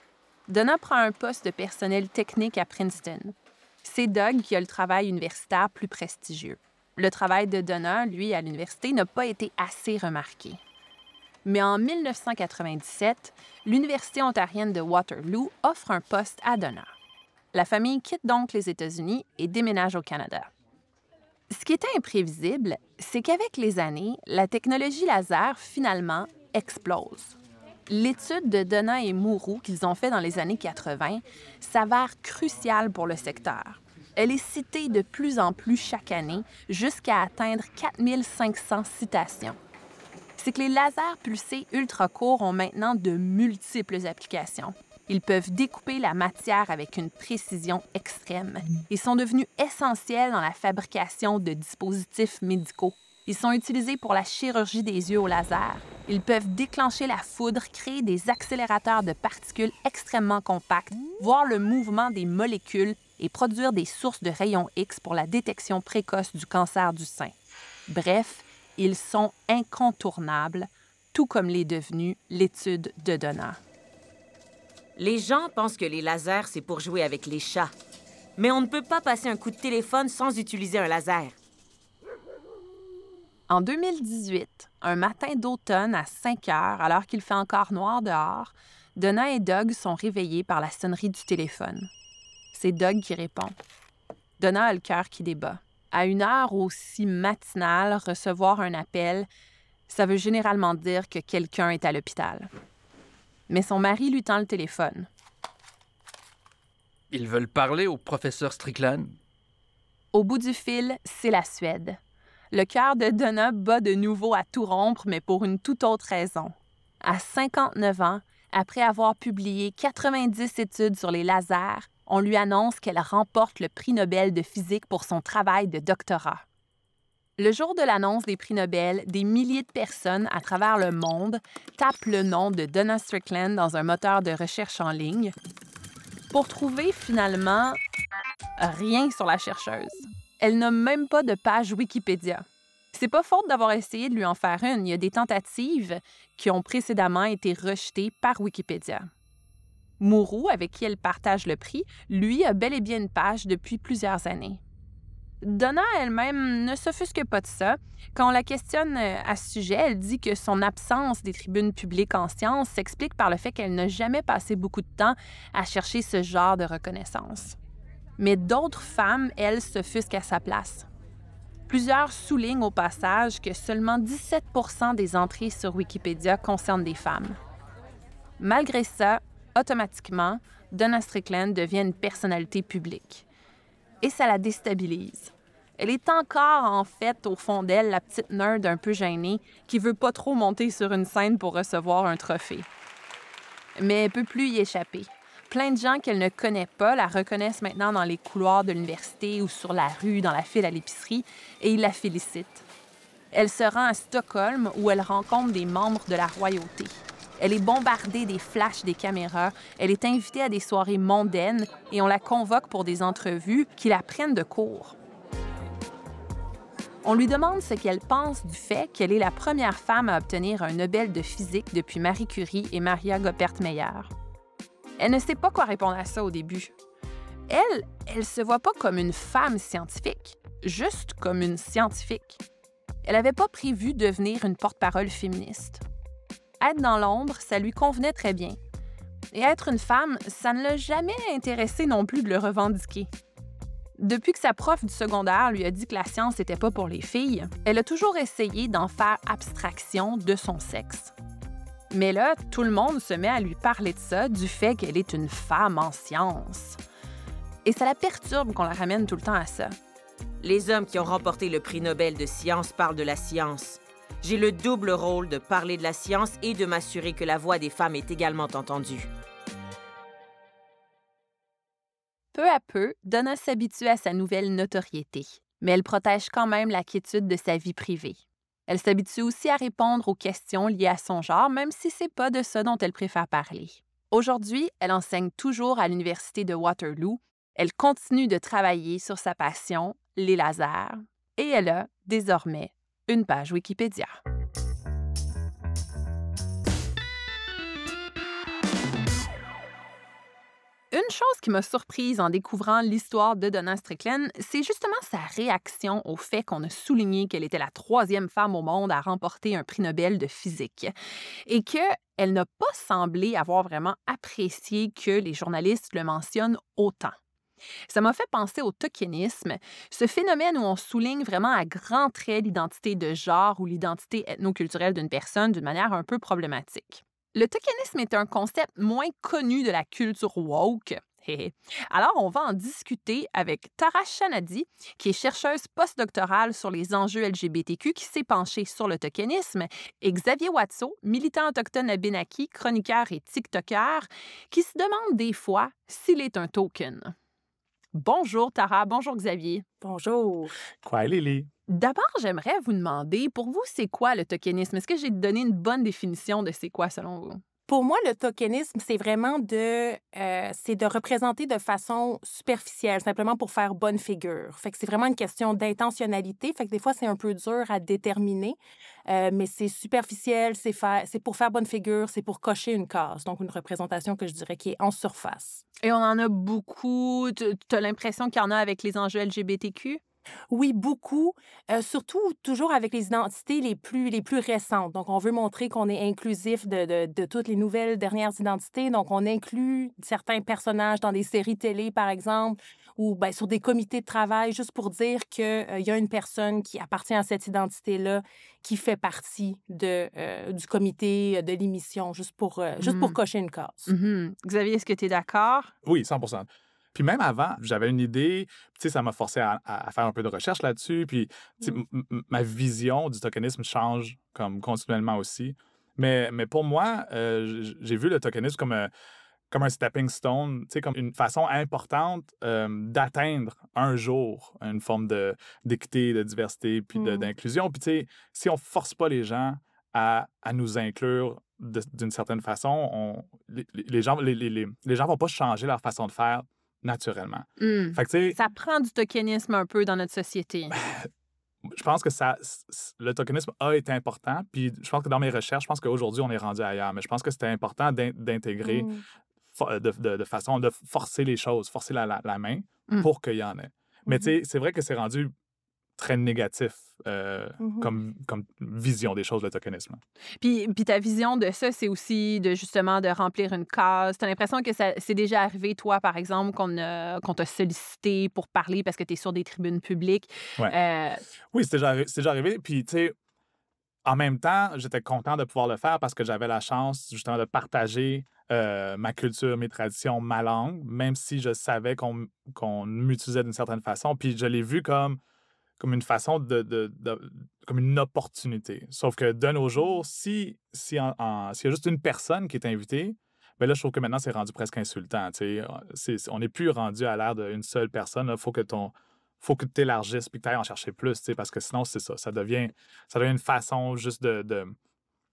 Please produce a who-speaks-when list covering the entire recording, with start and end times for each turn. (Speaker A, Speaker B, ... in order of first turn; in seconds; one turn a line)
Speaker A: 0.5-10.6
Speaker A: 11.4-16.9
Speaker A: 17.5-20.5
Speaker A: 21.5-27.4
Speaker A: 27.9-39.6
Speaker A: 40.4-67.3
Speaker A: 67.9-73.6
Speaker B: 75.0-77.7
Speaker B: 78.4-81.4
Speaker A: 83.5-91.9
Speaker A: 92.5-93.5
Speaker A: 94.4-99.3
Speaker A: 99.9-102.5
Speaker A: 103.5-105.1
Speaker C: 107.1-109.2
Speaker A: 110.1-112.0
Speaker A: 112.5-126.4
Speaker A: 127.4-135.3
Speaker A: 136.3-137.8
Speaker A: 138.6-149.1
Speaker A: 150.0-154.6
Speaker A: 155.4-167.6
Speaker A: 168.2-170.9
Speaker A: 171.7-177.4
Speaker A: 178.4-183.2
Speaker A: 184.0-192.7
Speaker A: 193.8-202.7
Speaker A: 203.3-215.0
Speaker A: 217.0-224.1
Speaker A: 225.0-226.7
Speaker A: 227.5-232.4
Speaker A: 233.0-235.8
Speaker A: 236.6-238.6
Speaker A: 239.3-243.1
Speaker A: 244.0-251.1
Speaker A: 251.9-256.8
Speaker A: 257.6-259.8
Speaker B: 260.4-269.1
Speaker A: 272.3-294.2
Speaker A: 300.9-310.9
Speaker A: 311.5-317.2
Speaker A: 317.9-347.1
Speaker A: 347.9-349.6
Speaker D: 349.8-350.6
Speaker E: 350.8-351.5
Speaker A: 351.7-357.4
Speaker D: 357.7-375.6
Speaker A: 375.8-380.0
Speaker D: 380.5-403.9
Speaker A: 402.8-403.2
Speaker A: 403.9-405.7
Speaker E: 405.8-418.9
Speaker E: 419.5-438.4
Speaker D: 427.0-427.3
Speaker A: 437.6-440.8
Speaker E: 440.7-441.1
Speaker E: 441.7-448.9
Speaker D: 448.6-449.0
Speaker E: 449.5-455.3
Speaker D: 454.1-454.3
Speaker E: 456.0-460.0
Speaker D: 457.6-457.9
Speaker A: 460.4-471.2
Speaker E: 471.5-473.1
Speaker E: 474.1-485.2
Speaker E: 485.8-504.8